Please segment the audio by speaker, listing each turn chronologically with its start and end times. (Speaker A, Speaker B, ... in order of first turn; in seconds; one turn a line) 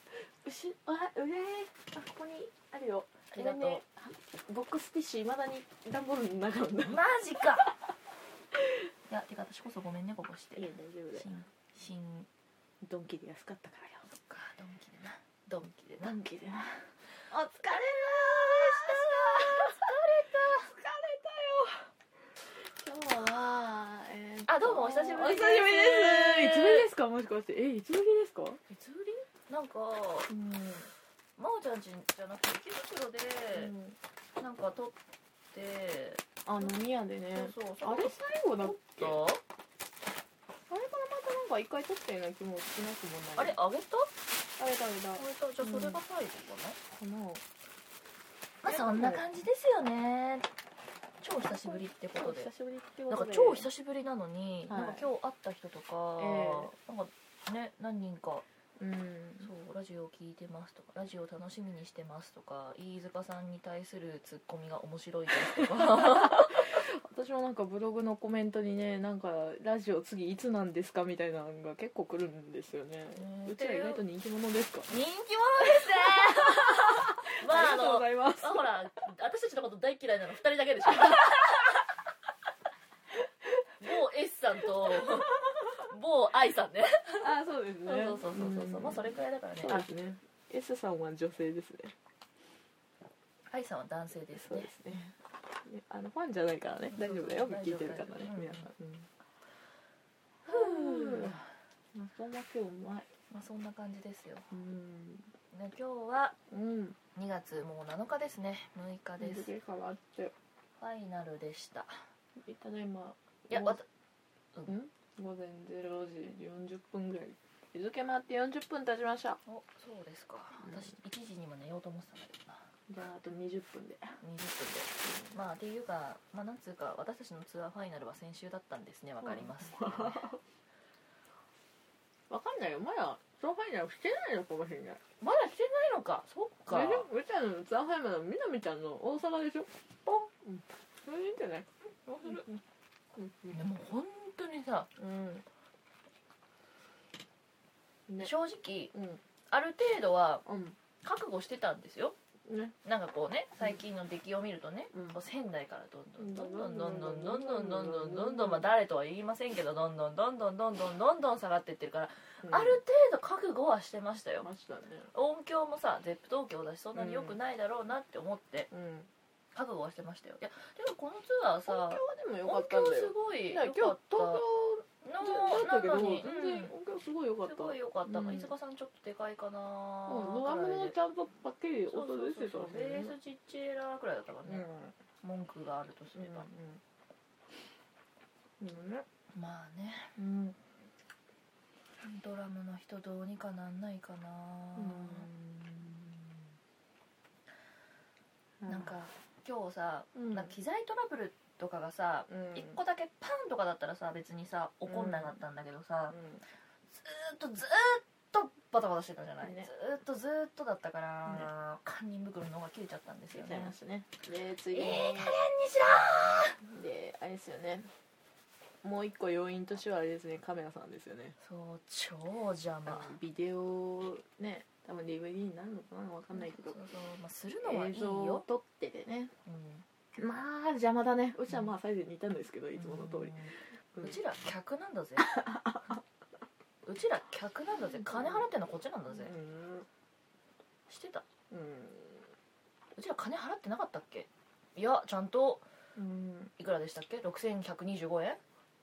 Speaker A: 0.4-7.1
Speaker B: 3.3-3.8
Speaker B: 6.9-7.7
Speaker B: 9.1-12.3
Speaker A: 10.6-11.3
Speaker A: 12.8-14.1
Speaker B: 14.1-16.2
Speaker A: 16.0-21.9
Speaker B: 17.3-20.7
Speaker A: 22.5-28.6
Speaker B: 24.5-26.9
Speaker B: 28.7-30.3
Speaker A: 30.3-30.9
Speaker B: 31.4-33.7
Speaker A: 33.5-34.0
Speaker B: 34.4-35.0
Speaker B: 35.5-36.7
Speaker A: 36.5-39.2
Speaker B: 37.3-39.4
Speaker A: 40.7-43.6
Speaker B: 43.4-44.1
Speaker A: 44.6-46.0
Speaker B: 45.2-46.8
Speaker A: 46.9-47.4
Speaker B: 48.6-50.5
Speaker A: 48.7-49.2
Speaker B: 51.2-52.5
Speaker A: 51.5-53.7
Speaker B: 53.1-58.5
Speaker A: 54.7-55.1
Speaker A: 56.2-56.7
Speaker A: 58.8-59.5
Speaker B: 59.4-66.8
Speaker A: 65.6-74.9
Speaker B: 73.1-74.0
Speaker B: 74.9-81.8
Speaker A: 75.6-78.7
Speaker B: 83.8-87.3
Speaker A: 87.2-91.9
Speaker B: 87.8-89.9
Speaker B: 93.5-94.8
Speaker A: 94.3-95.1
Speaker A: 95.7-99.1
Speaker B: 96.9-98.7
Speaker A: 100.5-101.4
Speaker B: 100.5-101.4
Speaker A: 101.9-103.1
Speaker B: 103.3-104.5
Speaker A: 104.5-105.3
Speaker B: 105.5-106.4
Speaker A: 106.5-107.0
Speaker B: 107.2-109.5
Speaker A: 109.2-110.3
Speaker B: 110.8-111.9
Speaker A: 112.4-113.8
Speaker B: 113.5-113.9
Speaker A: 114.7-119.4
Speaker B: 119.5-122.7
Speaker A: 122.9-124.2
Speaker B: 124.2-130.3
Speaker A: 129.2-130.4
Speaker A: 132.3-135.0
Speaker B: 135.2-137.1
Speaker A: 136.7-141.7
Speaker B: 142.1-142.4
Speaker A: 142.3-142.6
Speaker A: 143.2-143.6
Speaker B: 143.5-144.9
Speaker A: 145.0-145.4
Speaker B: 148.2-148.9
Speaker A: 148.9-149.2
Speaker B: 149.5-150.4
Speaker A: 150.5-150.8
Speaker B: 151.0-152.2
Speaker A: 152.5-152.8
Speaker B: 152.8-164.5
Speaker A: 154.9-155.2
Speaker A: 156.2-158.7
Speaker A: 162.4-162.8
Speaker A: 164.4-165.1
Speaker B: 165.1-168.7
Speaker A: 166.9-167.4
Speaker A: 168.7-169.1
Speaker B: 169.5-174.4
Speaker A: 171.7-178.5
Speaker B: 175.0-176.7
Speaker B: 177.4-180.9
Speaker A: 180.1-183.1
Speaker B: 181.9-184.7
Speaker A: 184.4-184.9
Speaker B: 185.2-186.5
Speaker A: 186.2-186.8
Speaker A: 188.6-189.1
Speaker B: 189.3-190.1
Speaker A: 190.2-190.6
Speaker B: 192.0-195.3
Speaker A: 194.8-196.3
Speaker A: 198.6-198.9
Speaker B: 198.7-206.2
Speaker A: 200.2-200.5
Speaker A: 202.3-202.8
Speaker A: 204.9-205.4
Speaker A: 206.1-206.4
Speaker B: 206.9-213.8
Speaker A: 209.4-209.7
Speaker A: 213.3-215.4
Speaker B: 214.7-216.6
Speaker A: 216.7-217.9
Speaker A: 218.8-221.4
Speaker B: 221.4-223.1
Speaker A: 222.9-226.8
Speaker B: 226.3-228.4
Speaker A: 227.6-229.3
Speaker B: 229.5-229.9
Speaker A: 230.2-234.2
Speaker B: 232.8-235.3
Speaker A: 235.2-236.0
Speaker B: 236.8-239.3
Speaker A: 238.1-238.4
Speaker A: 239.1-239.9
Speaker B: 240.9-241.2
Speaker A: 241.5-242.3
Speaker B: 242.9-245.7
Speaker A: 245.9-246.5
Speaker B: 246.6-248.4